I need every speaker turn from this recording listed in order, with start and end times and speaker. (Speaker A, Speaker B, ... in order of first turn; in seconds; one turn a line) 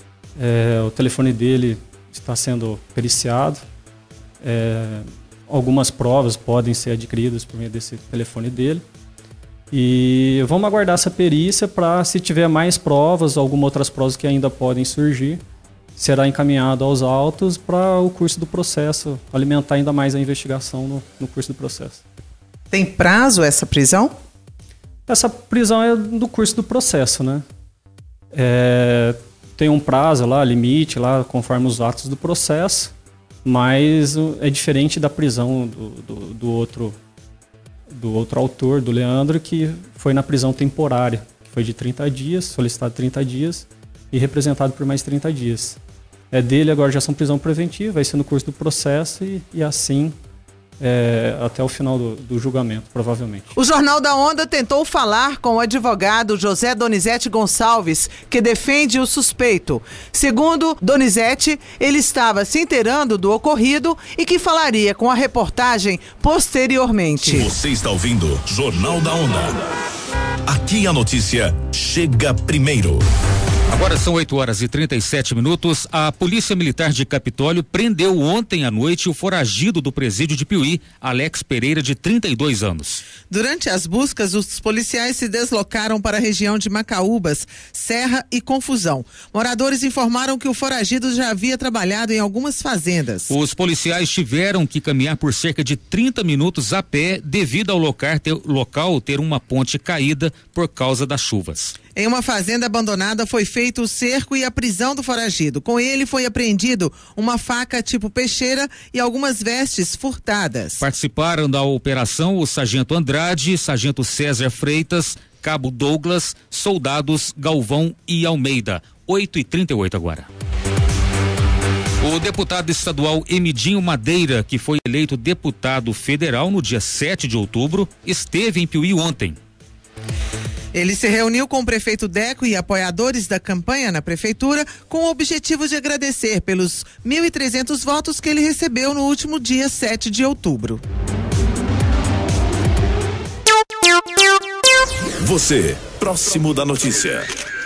Speaker A: 0.4-3.6
Speaker A: 4.4-8.8
Speaker A: 9.7-15.4
Speaker A: 16.0-22.0
Speaker B: 22.7-24.1
Speaker A: 25.1-27.4
Speaker A: 28.3-32.9
Speaker A: 33.5-37.0
Speaker A: 37.9-45.8
Speaker A: 46.3-50.1
Speaker A: 50.8-53.5
Speaker B: 53.5-67.5
Speaker C: 67.2-69.6
Speaker C: 70.5-73.1
Speaker D: 73.7-83.0
Speaker B: 83.3-93.3
Speaker D: 93.3-101.8
Speaker B: 102.0-110.8
Speaker D: 110.8-120.3
Speaker D: 122.0-129.4
Speaker B: 130.7-140.8
Speaker C: 145.2-147.3